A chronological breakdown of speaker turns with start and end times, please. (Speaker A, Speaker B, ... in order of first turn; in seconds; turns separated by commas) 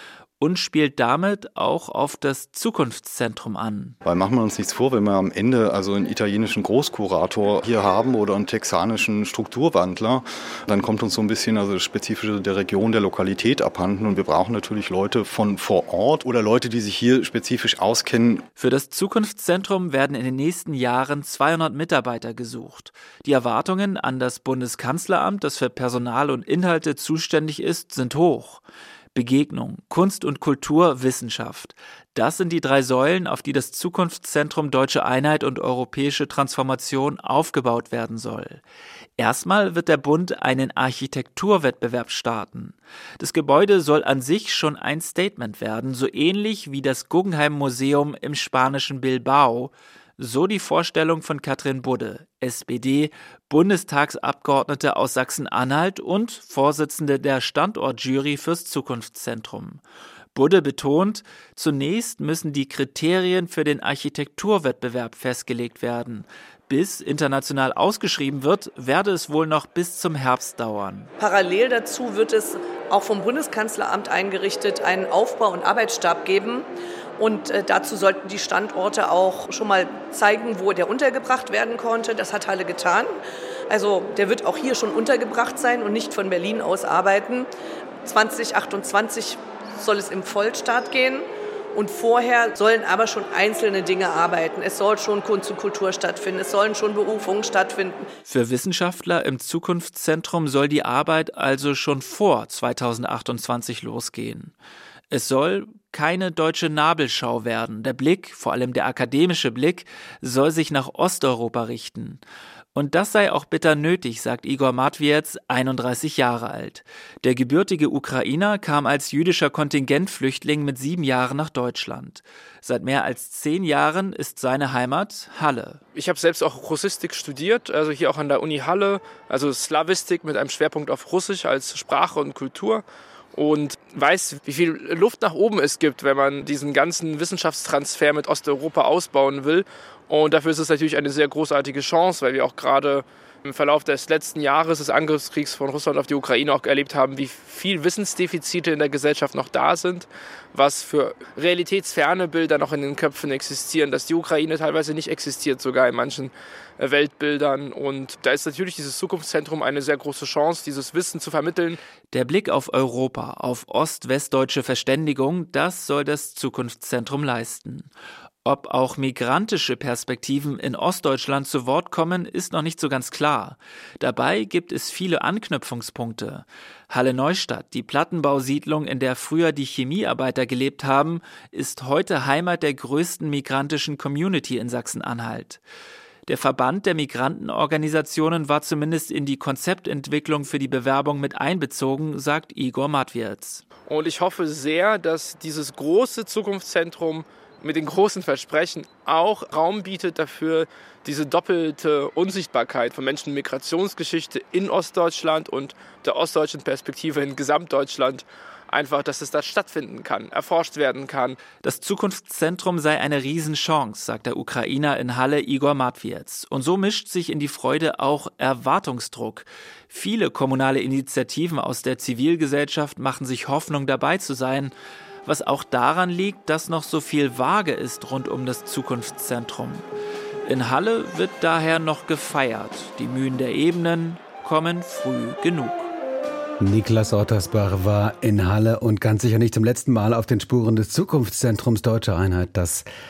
Speaker A: 0.4-4.0, Speaker B: 4.0-18.4, Speaker A: 18.6-28.6, Speaker A: 29.1-38.6, Speaker A: 39.2-59.8, Speaker A: 60.3-71.1, Speaker C: 71.2-76.7, Speaker C: 77.2-83.1, Speaker C: 83.7-87.5, Speaker C: 88.0-98.0, Speaker A: 98.2-104.5, Speaker A: 105.1-112.2, Speaker A: 112.7-125.8, Speaker D: 125.9-132.8, Speaker D: 133.3-161.8, Speaker A: 162.1-167.9, Speaker A: 168.4-185.6, Speaker A: 186.2-193.6, Speaker D: 193.9-211.4, Speaker A: 211.6-224.7, Speaker A: 225.2-229.8, Speaker A: 230.4-235.9, Speaker E: 236.6-242.8